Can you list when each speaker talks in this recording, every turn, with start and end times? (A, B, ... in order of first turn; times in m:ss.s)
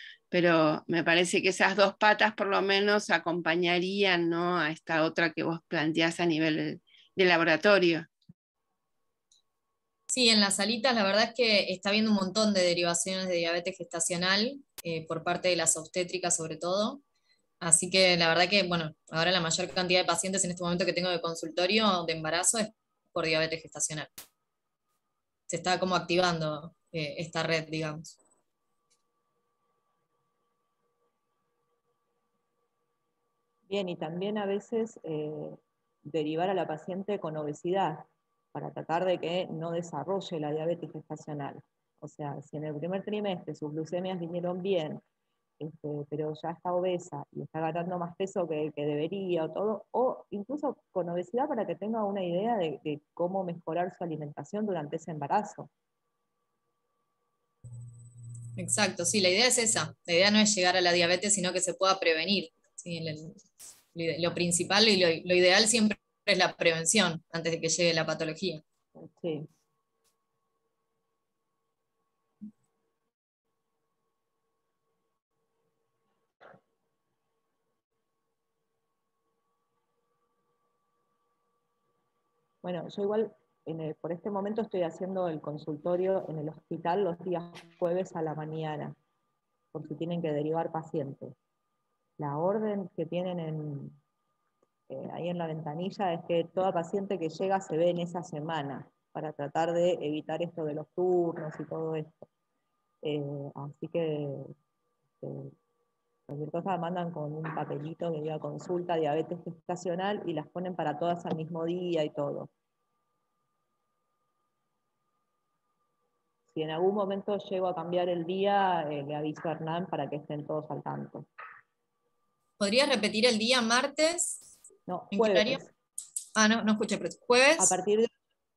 0:00.3-0:08.1 A
0:10.1-0:17.0 B
0:17.6-0:24.1 B
0:25.5-0:28.2 B
0:33.7-0:45.0 C
0:45.6-0:55.7 C
0:58.6-1:08.6 B
1:09.0-1:09.5 C
1:22.6-1:29.0 C
1:29.7-1:31.4 C
1:32.2-1:34.0 C
1:34.9-1:42.3 C
1:43.0-1:44.5 C
1:45.2-1:45.5 C
1:46.3-1:52.5 C
1:56.5-2:01.3 C
2:02.6-2:04.4 B
2:04.9-2:05.7 C
2:05.1-2:05.6 B
2:06.4-2:07.8 B
2:07.6-2:08.1 C